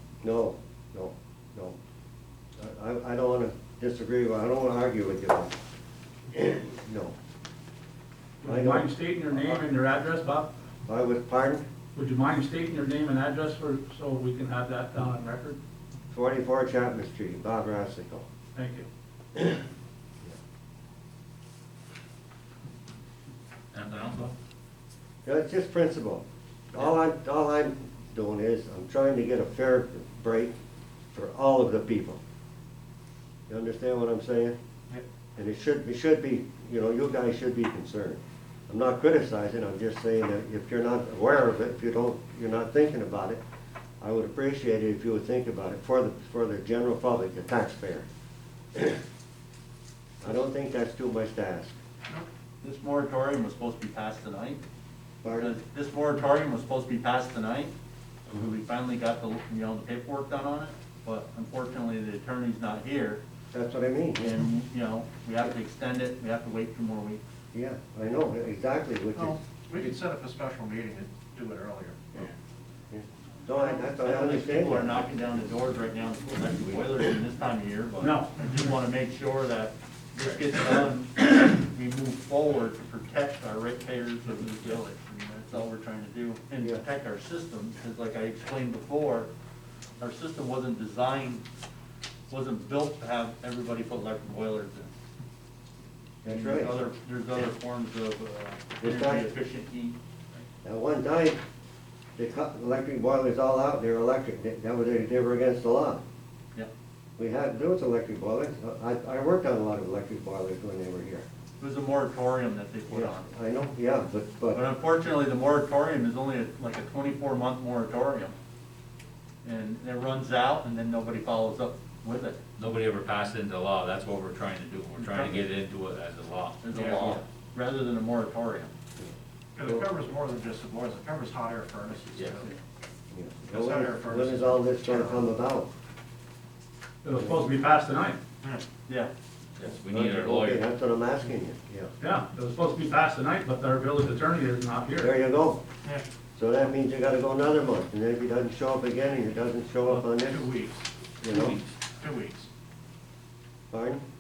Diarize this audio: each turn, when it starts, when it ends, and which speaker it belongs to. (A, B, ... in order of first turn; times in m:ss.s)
0:00.2-0:01.8 A
0:02.6-0:05.5 A
0:06.4-0:07.1 A
0:08.4-0:10.5 B
0:08.4-0:09.6 A
0:10.8-0:11.6 A
0:12.0-0:15.6 B
0:16.1-0:18.2 A
0:18.5-0:18.8 B
0:23.7-0:24.3 C
0:25.2-0:26.2 A
0:26.8-0:30.5 A
0:31.1-0:32.2 A
0:33.5-0:34.6 A
0:35.4-0:43.4 A
0:44.0-0:48.0 A
0:50.2-0:51.8 A
0:52.6-0:54.6 D
0:55.2-0:55.5 A
0:55.3-0:57.7 D
0:58.3-1:03.2 D
1:03.5-1:04.3 A
1:04.2-1:07.2 D
1:07.5-1:09.4 A
1:09.2-1:12.2 E
1:12.9-1:15.1 A
1:14.0-1:29.3 D
1:18.0-1:18.3 B
1:30.0-1:31.4 D
1:32.3-1:34.9 D
1:36.2-1:36.8 A
1:36.3-1:40.0 D
1:38.8-1:39.2 A
1:40.6-1:41.4 A
1:42.2-1:46.0 A
1:47.2-1:51.2 A
1:51.6-1:53.3 D
1:52.9-1:54.6 A
1:54.5-1:58.3 D
1:59.4-2:02.4 D
2:02.6-2:06.6 C
2:05.0-2:05.5 D
2:06.6-2:08.7 D
2:06.7-2:07.2 E
2:09.5-2:12.5 E
2:12.1-2:12.4 C
2:13.1-2:15.7 A
2:13.5-2:15.3 E
2:17.0-2:18.2 B
2:17.1-2:17.4 A
2:19.6-2:20.6 C
2:19.9-2:21.9 A
2:22.0-2:25.1 B
2:25.0-2:25.6 A
2:26.4-2:30.4 A
2:29.9-2:30.8 E
2:31.2-2:31.6 A
2:31.3-2:31.7 C
2:32.0-2:32.5 E
2:33.7-2:34.0 A